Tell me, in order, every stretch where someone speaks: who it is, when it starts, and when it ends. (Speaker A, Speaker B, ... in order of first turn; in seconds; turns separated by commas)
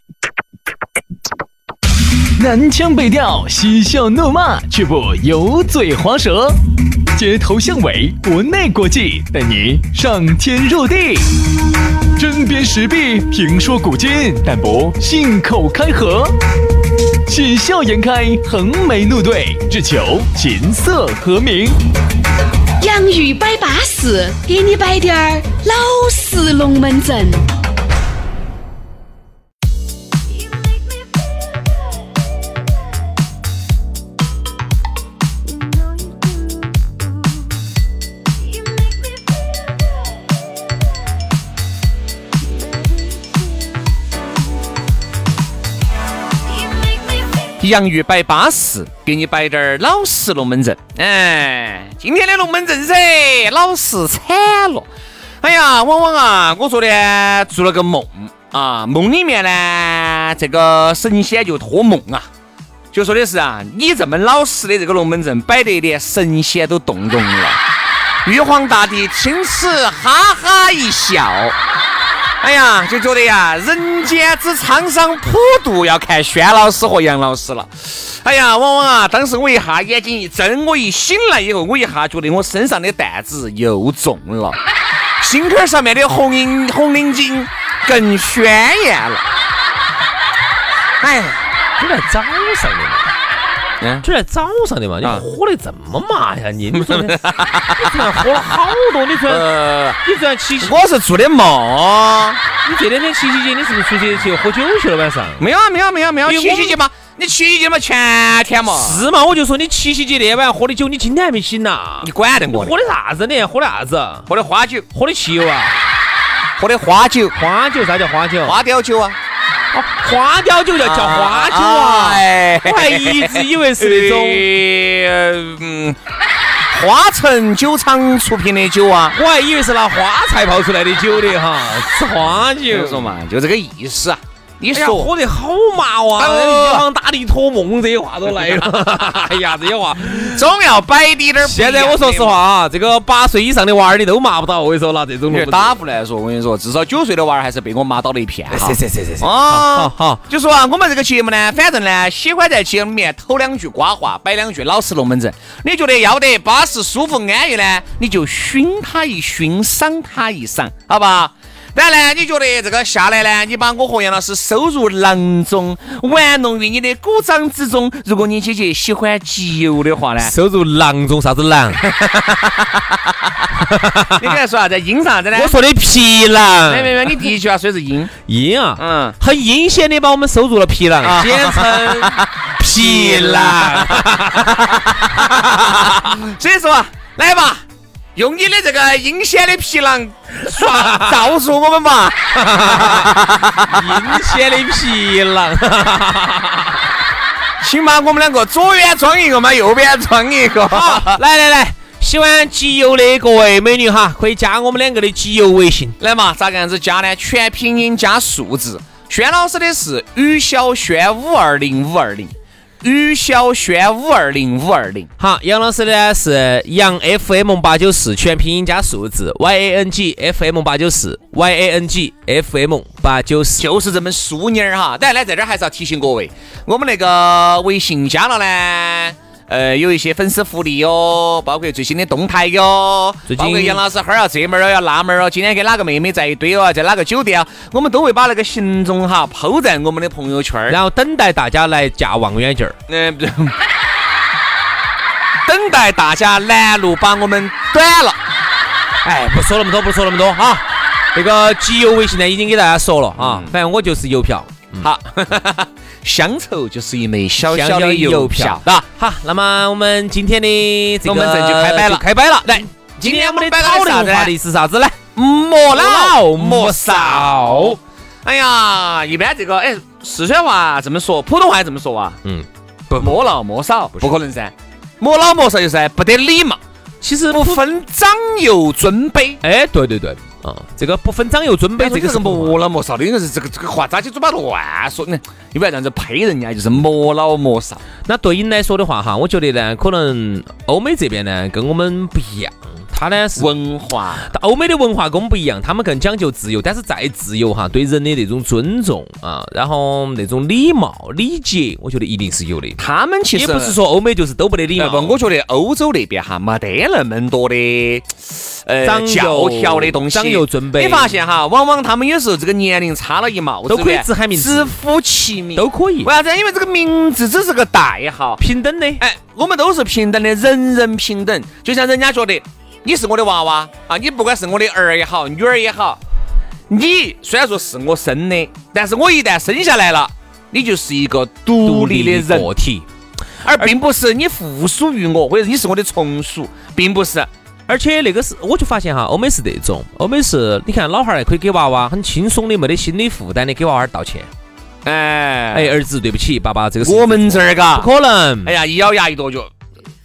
Speaker A: 2.4-6.6, Speaker A: 7.2-11.2, Speaker A: 12.2-16.3, Speaker A: 17.3-21.8, Speaker B: 22.8-27.5, Speaker C: 47.6-54.9, Speaker C: 55.4-62.3, Speaker C: 62.9-67.6, Speaker C: 68.2-71.6, Speaker C: 72.4-84.6, Speaker C: 85.2-89.2, Speaker C: 91.0-91.4, Speaker D: 91.8-93.1, Speaker C: 93.8-94.1, Speaker D: 94.0-99.5, Speaker C: 96.7-98.4, Speaker C: 99.3-100.0, Speaker D: 100.0-100.8, Speaker C: 100.6-102.4, Speaker D: 102.6-105.4, Speaker C: 105.4-109.0, Speaker D: 106.3-106.8, Speaker D: 108.7-114.3, Speaker C: 112.0-112.8, Speaker C: 114.3-114.9, Speaker D: 114.9-115.9, Speaker C: 116.6-117.3, Speaker D: 117.3-118.6, Speaker C: 118.4-119.2, Speaker D: 119.7-124.5, Speaker C: 120.8-126.0, Speaker C: 126.7-129.2, Speaker D: 129.2-133.1, Speaker C: 132.7-135.1, Speaker D: 134.7-140.4, Speaker C: 136.2-136.8, Speaker C: 140.0-142.4, Speaker D: 141.4-145.8, Speaker C: 145.3-170.3, Speaker D: 148.5-150.2, Speaker D: 170.2-171.8, Speaker C: 171.8-173.5, Speaker D: 173.6-174.4, Speaker C: 174.2-175.6, Speaker D: 175.3-177.2, Speaker C: 176.7-178.1, Speaker D: 178.3-184.9, Speaker C: 178.8-179.2, Speaker C: 181.0-187.6, Speaker C: 188.2-194.2, Speaker D: 190.5-191.2, Speaker D: 192.4-196.9, Speaker C: 197.6-201.2, Speaker D: 200.7-205.9, Speaker C: 206.0-215.1, Speaker D: 215.2-223.7, Speaker C: 223.6-240.8, Speaker D: 233.3-233.8, Speaker D: 240.7-242.8, Speaker C: 242.9-243.6, Speaker C: 245.4-248.2, Speaker D: 249.0-250.6, Speaker D: 251.2-254.9, Speaker C: 253.2-253.5, Speaker C: 254.8-258.9, Speaker D: 257.5-265.0, Speaker C: 261.0-264.3, Speaker C: 265.2-272.2, Speaker D: 265.7-267.8, Speaker D: 272.2-273.2, Speaker C: 273.0-276.6, Speaker D: 277.0-277.6, Speaker C: 277.3-279.4, Speaker D: 279.4-282.6, Speaker C: 281.8-287.8, Speaker D: 288.1-293.5, Speaker C: 293.4-294.3, Speaker D: 294.3-302.8, Speaker C: 302.8-303.8, Speaker D: 303.3-305.2, Speaker C: 304.8-318.4, Speaker D: 308.8-311.2, Speaker D: 313.7-314.8, Speaker D: 315.6-316.1, Speaker D: 318.4-319.0, Speaker C: 319.0-326.0, Speaker C: 326.7-332.5, Speaker D: 331.6-332.9, Speaker C: 333.4-337.3, Speaker D: 337.7-344.3, Speaker C: 344.9-345.8, Speaker D: 345.5-348.6, Speaker C: 346.8-347.9, Speaker C: 348.4-349.5